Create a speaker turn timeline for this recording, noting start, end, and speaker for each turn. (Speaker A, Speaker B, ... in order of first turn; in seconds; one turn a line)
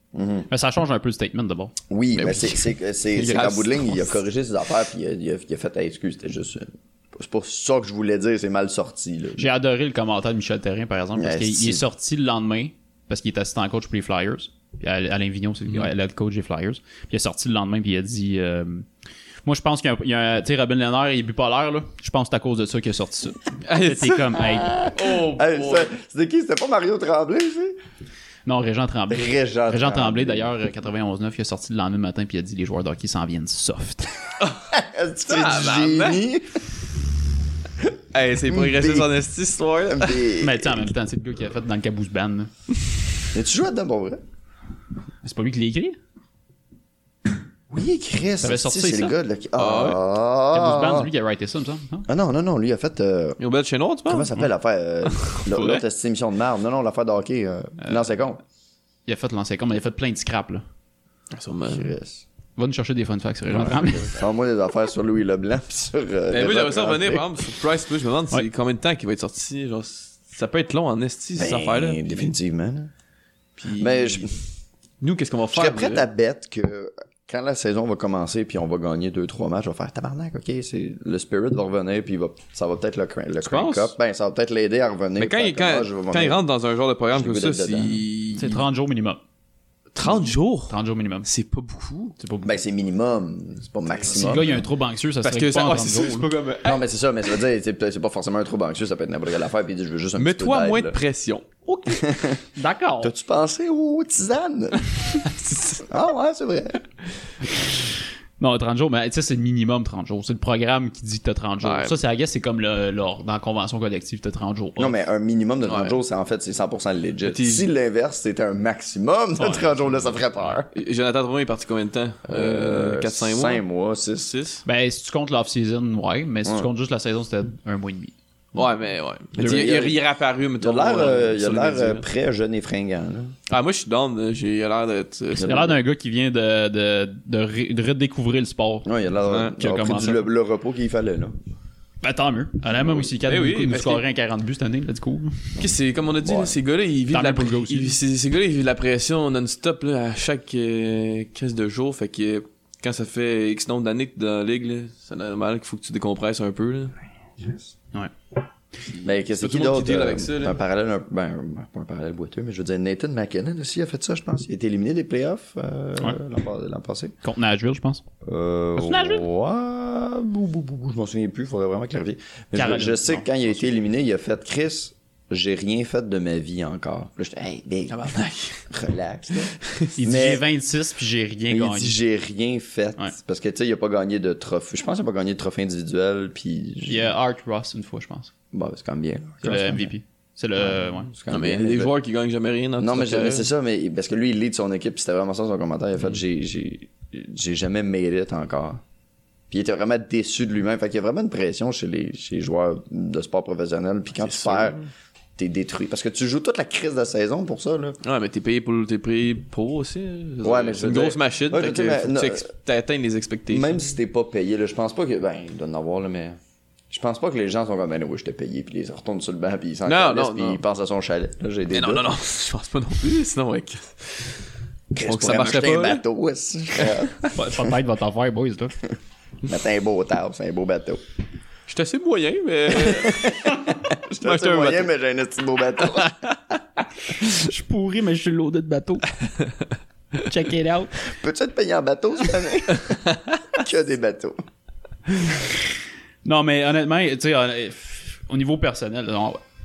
Speaker A: 0.1-0.5
Speaker B: 0.5-1.7
Speaker A: 1.9-9.5
Speaker C: 2.1-4.1
Speaker B: 9.4-18.9
Speaker A: 11.2-11.8
Speaker B: 19.4-24.8
Speaker C: 23.7-25.9
Speaker A: 24.4-27.8
Speaker B: 28.5-34.1
Speaker A: 29.1-30.5
Speaker C: 34.4-34.7
Speaker A: 34.7-36.6
Speaker C: 35.3-36.3
Speaker C: 38.1-40.2
Speaker A: 38.5-39.1
Speaker A: 39.9-40.9
Speaker B: 40.4-42.5
Speaker A: 43.3-44.2
Speaker B: 45.2-46.0
Speaker A: 47.7-51.1
Speaker B: 48.4-49.1
Speaker C: 49.6-50.0
Speaker B: 50.5-52.1
Speaker A: 52.1-53.4
Speaker C: 53.4-54.4
Speaker A: 54.1-58.4
Speaker C: 55.1-55.8
Speaker B: 59.1-60.6
Speaker C: 61.3-61.9
Speaker A: 61.7-62.2
Speaker B: 62.6-64.1
Speaker A: 63.6-67.3
Speaker C: 66.3-72.0
Speaker A: 71.4-72.9
Speaker C: 73.6-74.4
Speaker A: 73.8-74.3
Speaker C: 75.0-76.1
Speaker A: 75.5-86.4
Speaker C: 83.4-83.9
Speaker C: 85.2-88.6
Speaker A: 87.1-88.0
Speaker B: 88.4-89.2
Speaker C: 90.0-92.2
Speaker B: 90.0-91.3
Speaker B: 92.2-92.6
Speaker A: 92.4-94.4
Speaker C: 93.9-94.6
Speaker B: 94.1-96.3
Speaker C: 95.2-96.8
Speaker A: 96.6-101.0
Speaker C: 100.2-101.5
Speaker B: 101.7-102.0
Speaker A: 101.9-102.4
Speaker B: 102.5-103.1
Speaker A: 103.0-104.9
Speaker A: 105.8-106.9
Speaker B: 107.7-115.0
Speaker C: 111.6-111.9
Speaker A: 114.8-120.7
Speaker C: 115.7-116.0
Speaker C: 117.2-117.7
Speaker B: 119.4-119.9
Speaker C: 120.8-123.6
Speaker A: 122.3-124.3
Speaker C: 124.2-124.6
Speaker B: 124.7-128.1
Speaker C: 128.6-132.1
Speaker A: 129.3-130.0
Speaker B: 129.4-129.8
Speaker A: 130.6-133.3
Speaker C: 133.5-135.7
Speaker A: 135.4-135.7
Speaker B: 135.4-138.9
Speaker A: 138.8-141.3
Speaker C: 139.3-139.5
Speaker B: 139.4-140.3
Speaker B: 142.0-145.5
Speaker C: 143.0-144.0
Speaker A: 145.6-146.6
Speaker C: 145.6-156.9
Speaker B: 147.1-147.9
Speaker A: 157.4-157.7
Speaker A: 159.0-167.1
Speaker C: 159.3-160.6
Speaker B: 167.2-168.0
Speaker A: 168.2-178.1
Speaker B: 168.8-169.2
Speaker B: 172.5-173.3
Speaker C: 177.9-178.7
Speaker A: 178.7-180.4
Speaker C: 179.4-179.9
Speaker B: 180.0-182.0
Speaker A: 181.5-187.1
Speaker B: 186.9-188.3
Speaker A: 188.5-189.9
Speaker B: 189.4-191.1
Speaker A: 190.6-191.9
Speaker C: 191.3-193.5
Speaker A: 192.8-198.8
Speaker A: 199.5-204.8
Speaker C: 204.2-204.9
Speaker A: 205.4-208.0
Speaker C: 208.0-213.8
Speaker A: 210.4-212.5
Speaker A: 213.5-216.4
Speaker A: 216.9-222.1
Speaker C: 219.9-220.6
Speaker C: 221.7-224.4
Speaker A: 224.9-227.8
Speaker C: 225.0-226.0
Speaker C: 226.8-227.3
Speaker B: 227.3-228.8
Speaker A: 229.5-231.0
Speaker C: 231.7-233.5
Speaker A: 232.7-236.2
Speaker C: 234.2-234.9
Speaker C: 235.9-236.3
Speaker B: 237.2-239.2
Speaker B: 240.2-240.9
Speaker A: 241.1-244.4
Speaker B: 246.2-249.4